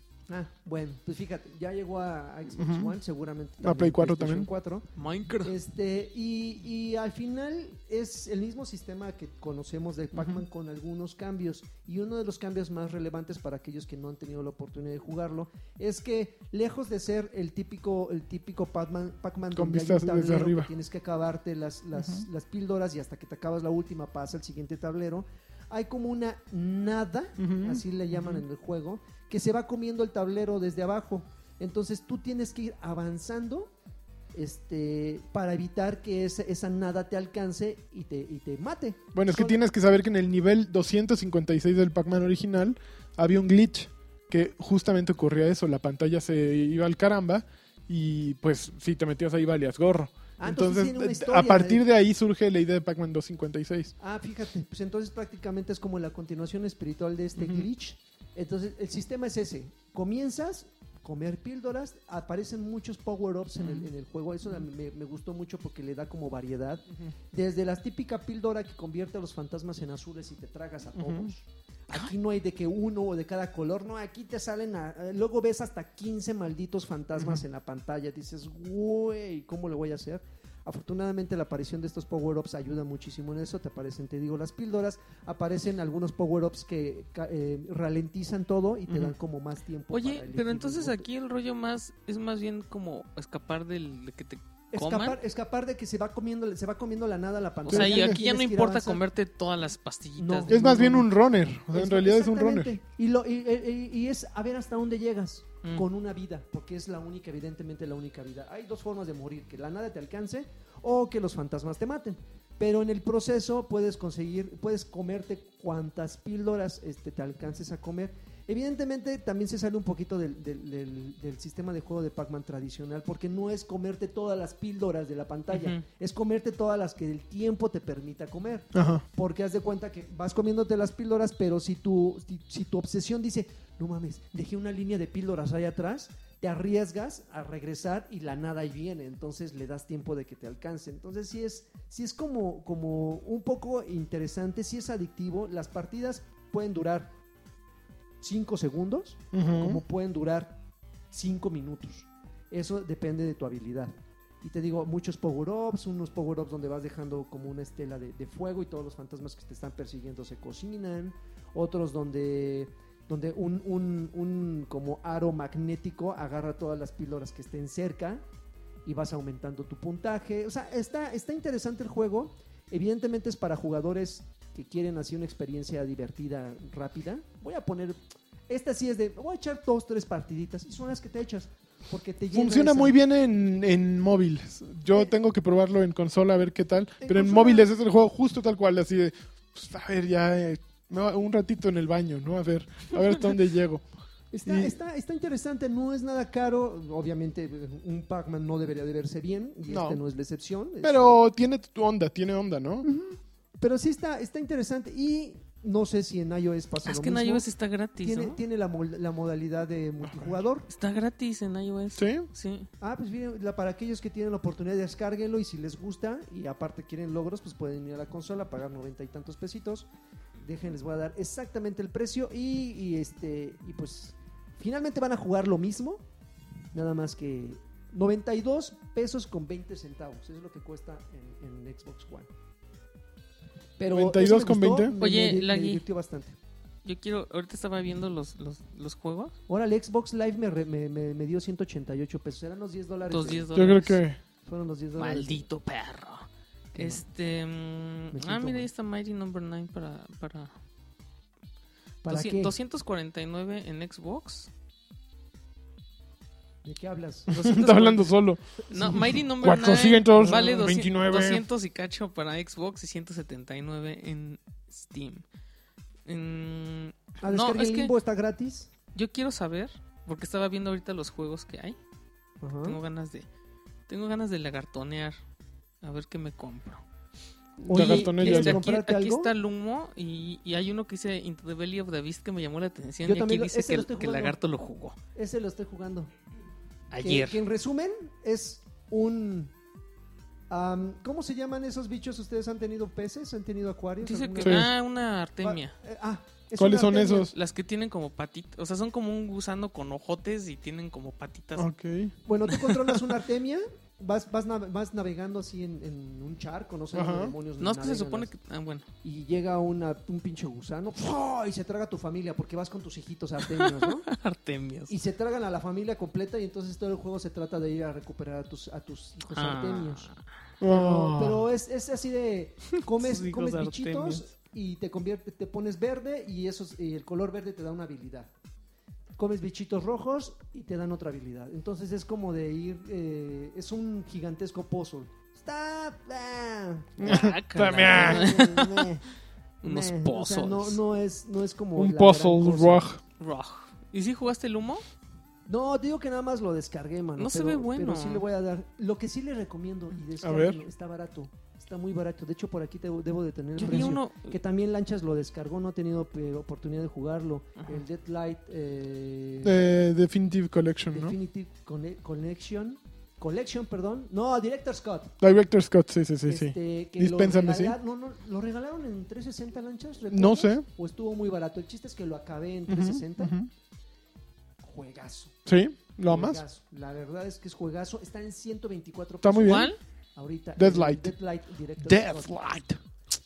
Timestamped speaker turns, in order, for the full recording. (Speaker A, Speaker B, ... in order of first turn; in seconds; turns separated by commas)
Speaker A: 0.3-4.9, Speaker B: 2.6-2.9, Speaker B: 3.6-4.5, Speaker C: 5.0-5.5, Speaker A: 5.4-33.7, Speaker B: 10.2-10.4, Speaker B: 19.5-20.7, Speaker B: 22.0-22.3, Speaker B: 27.4-28.4, Speaker A: 34.4-39.6, Speaker B: 39.1-53.9, Speaker A: 50.4-51.8, Speaker A: 54.0-91.1, Speaker B: 57.4-57.7, Speaker C: 63.6-63.9, Speaker B: 71.0-71.3, Speaker B: 88.9-89.1, Speaker C: 89.9-95.2, Speaker A: 94.7-99.0, Speaker C: 97.7-100.6, Speaker B: 97.7-98.2, Speaker A: 100.2-101.1, Speaker B: 100.5-102.7, Speaker A: 101.7-147.1, Speaker C: 125.5-125.8, Speaker B: 128.7-129.0, Speaker A: 148.2-168.2, Speaker B: 149.3-149.8, Speaker A: 168.8-178.0, Speaker A: 178.5-183.0, Speaker B: 182.3-193.8, Speaker A: 187.0-187.7, Speaker A: 194.3-201.2, Speaker B: 194.4-194.8, Speaker B: 199.7-200.0, Speaker B: 200.8-202.9, Speaker A: 202.8-207.5, Speaker C: 206.8-208.4, Speaker A: 208.0-210.7, Speaker B: 210.1-210.3, Speaker C: 210.7-212.7, Speaker B: 212.0-212.3, Speaker A: 212.8-219.9, Speaker A: 220.4-226.0, Speaker A: 226.7-232.3, Speaker A: 233.8-236.4, Speaker B: 233.9-234.9, Speaker C: 235.0-235.8, Speaker C: 236.8-239.3, Speaker A: 239.5-243.5, Speaker C: 243.1-244.0, Speaker B: 243.5-244.2, Speaker A: 244.4-245.4, Speaker C: 245.0-250.5, Speaker A: 246.8-247.0, Speaker A: 248.1-248.7, Speaker A: 252.0-252.5, Speaker C: 252.1-254.5, Speaker A: 256.6-257.5, Speaker B: 257.3-261.5, Speaker C: 257.3-258.1, Speaker A: 258.7-259.1, Speaker C: 258.7-265.2, Speaker A: 260.1-260.7, Speaker C: 266.1-267.9, Speaker A: 267.2-268.7, Speaker C: 268.9-271.8, Speaker A: 272.4-272.8, Speaker C: 272.6-273.3, Speaker C: 273.9-275.2, Speaker C: 275.8-276.8, Speaker B: 277.6-278.6, Speaker A: 277.7-279.3, Speaker C: 277.7-285.0, Speaker A: 283.1-284.4, Speaker A: 285.1-286.1, Speaker C: 286.9-287.4, Speaker A: 287.0-289.5, Speaker A: 290.5-294.7, Speaker C: 294.0-295.8, Speaker B: 294.4-294.7, Speaker A: 295.4-297.3, Speaker B: 296.6-297.3, Speaker C: 297.3-301.7, Speaker B: 301.6-302.1, Speaker A: 302.3-308.3, Speaker B: 306.9-307.4, Speaker C: 307.6-308.9, Speaker A: 309.0-314.1, Speaker C: 313.5-314.9, Speaker A: 314.9-320.1, Speaker C: 319.3-320.2, Speaker B: 320.6-321.5, Speaker A: 320.7-328.3, Speaker C: 322.9-324.2, Speaker A: 329.2-337.2, Speaker B: 337.0-338.3, Speaker C: 337.0-338.9, Speaker A: 337.8-339.1, Speaker A: 339.6-342.9, Speaker C: 339.6-340.8, Speaker B: 341.8-343.0, Speaker C: 343.2-344.8, Speaker A: 345.5-359.7, Speaker C: 347.2-348.2, Speaker B: 350.2-350.6, Speaker C: 353.6-354.4, Speaker B: 359.4-361.1, Speaker A: 360.9-365.1, Speaker B: 365.2-367.8, Speaker A: 366.3-373.4, Speaker B: 370.1-370.7, Speaker B: 372.7-373.5, Speaker A: 374.6-375.4, Speaker B: 375.5-376.4, Speaker A: 376.1-382.3, Speaker B: 379.2-379.7, Speaker C: 379.4-379.8, Speaker B: 380.6-381.1, Speaker B: 381.8-382.8